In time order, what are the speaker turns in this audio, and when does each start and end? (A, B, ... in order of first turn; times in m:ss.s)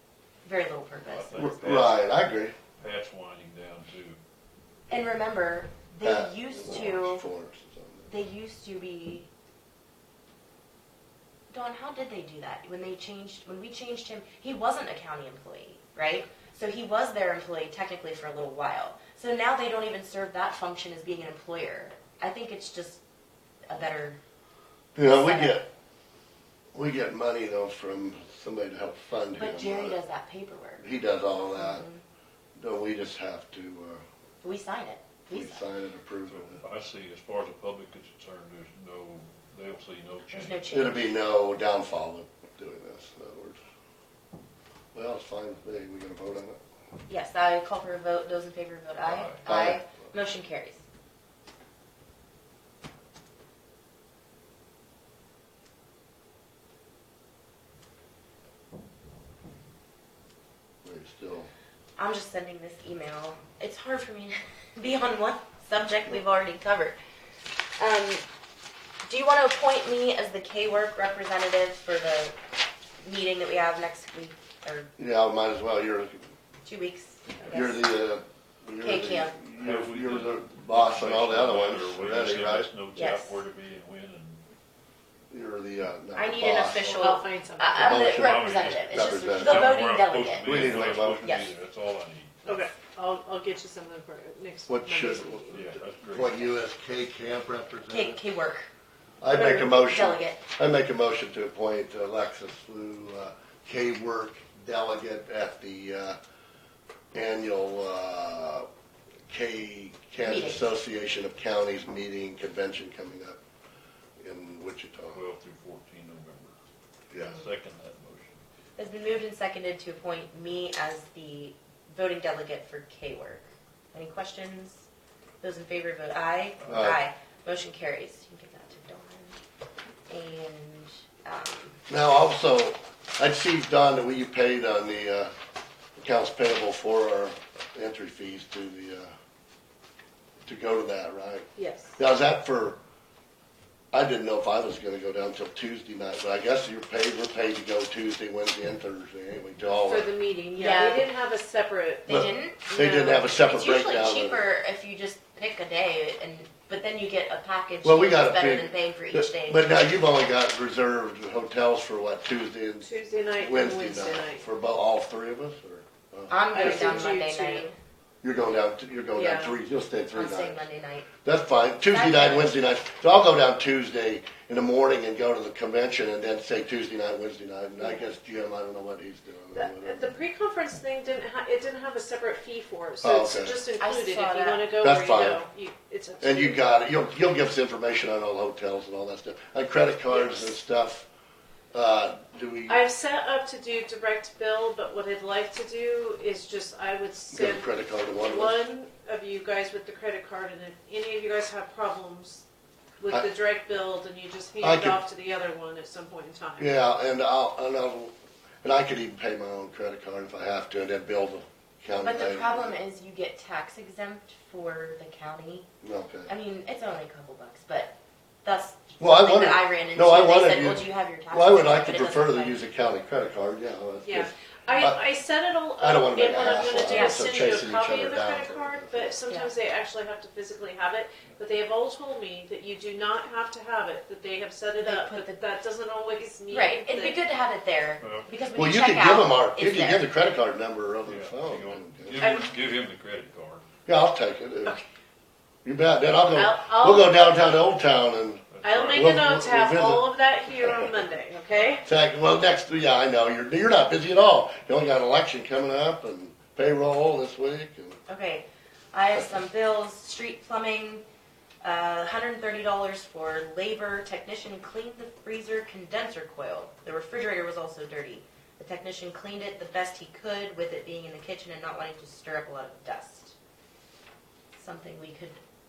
0:00.4-0:01.6 A
0:01.0-0:02.0 B
0:01.4-0:02.5 C
0:02.8-0:04.2 B
0:04.9-0:07.2 A
0:06.0-0:08.1 C
0:08.1-0:09.3 A
0:11.5-0:23.0 A
0:23.7-0:24.2 A
0:24.9-0:25.6 C
0:25.0-0:25.6 A
0:26.7-0:30.0 C
0:29.4-0:30.8 A
0:30.8-0:31.8 C
0:31.4-0:32.0 A
0:32.6-0:34.0 C
0:34.4-0:35.6 A
0:35.3-0:36.6 C
0:36.3-0:40.6 B
0:40.3-0:41.1 A
0:40.7-0:43.6 C
0:44.9-0:46.6 C
0:47.1-0:50.8 A
0:49.0-0:49.4 B
0:49.4-0:49.9 C
1:00.8-1:01.5 C
1:02.0-1:07.0 A
1:07.8-1:08.2 A
1:09.0-1:12.4 A
1:13.0-1:14.9 A
1:15.0-1:16.2 C
1:16.6-1:17.9 A
1:17.4-1:22.7 C
1:18.8-1:19.3 A
1:19.6-1:24.4 B
1:22.9-1:23.4 A
1:25.3-1:26.8 C
1:26.1-1:30.5 A
1:26.6-1:27.2 B
1:27.0-1:27.9 D
1:27.7-1:32.6 B
1:27.8-1:29.8 C
1:30.4-1:31.3 C
1:31.2-1:31.5 A
1:32.4-1:35.6 D
1:34.7-1:38.2 C
1:35.5-1:36.6 B
1:37.9-1:38.7 A
1:39.2-1:46.2 C
1:39.3-1:40.4 A
1:47.1-1:48.7 C
1:49.3-1:53.4 C
1:50.2-1:50.7 A
1:54.2-1:55.2 C
1:55.1-1:56.6 B
1:57.1-1:57.4 C
1:57.2-1:58.4 B
1:58.8-2:04.9 A
2:05.4-2:09.4 A
2:06.7-2:07.0 C
2:10.1-2:11.8 A
2:11.9-2:15.3 C
2:16.0-2:19.1 C
2:20.4-2:22.8 C
2:21.6-2:22.0 D
2:23.9-2:30.1 C
2:29.8-2:32.2 D
2:30.6-2:31.1 A
2:32.1-2:39.7 A
2:32.1-2:34.4 C
2:32.7-2:33.2 D
2:37.8-2:47.1 C
2:42.8-2:44.4 D
2:46.3-2:47.7 A
2:46.5-2:47.7 D
2:48.2-2:50.6 C
2:49.1-2:49.6 D
2:50.1-2:51.1 A
2:51.2-3:00.2 C
2:51.8-2:52.6 A
2:59.5-3:06.6 D
3:03.0-3:03.6 C
3:03.8-3:04.7 A
3:04.8-3:05.4 C
3:06.2-3:11.1 C
3:10.1-3:10.5 D
3:11.7-3:12.8 C
3:12.7-3:22.4 D
3:17.3-3:18.6 C
3:23.0-3:26.7 D
3:24.6-3:25.0 C
3:26.6-3:32.7 C
3:31.9-3:35.7 A
3:35.8-3:36.3 C
3:36.3-3:42.6 A
3:39.0-3:45.0 C
3:44.0-3:57.2 D
3:45.8-3:49.2 C
3:46.7-3:47.2 A
3:54.8-3:55.4 A
3:56.5-4:00.1 A
3:58.0-3:58.3 B
3:58.5-4:02.2 C
4:01.1-4:03.6 B
4:02.2-4:02.5 D
4:03.8-4:04.8 C
4:05.6-4:11.0 C
4:06.3-4:07.5 D
4:08.5-4:09.2 B
4:08.6-4:11.9 D
4:11.8-4:18.0 C
4:18.1-4:21.0 A
4:21.6-4:33.3 A
4:34.6-4:35.4 A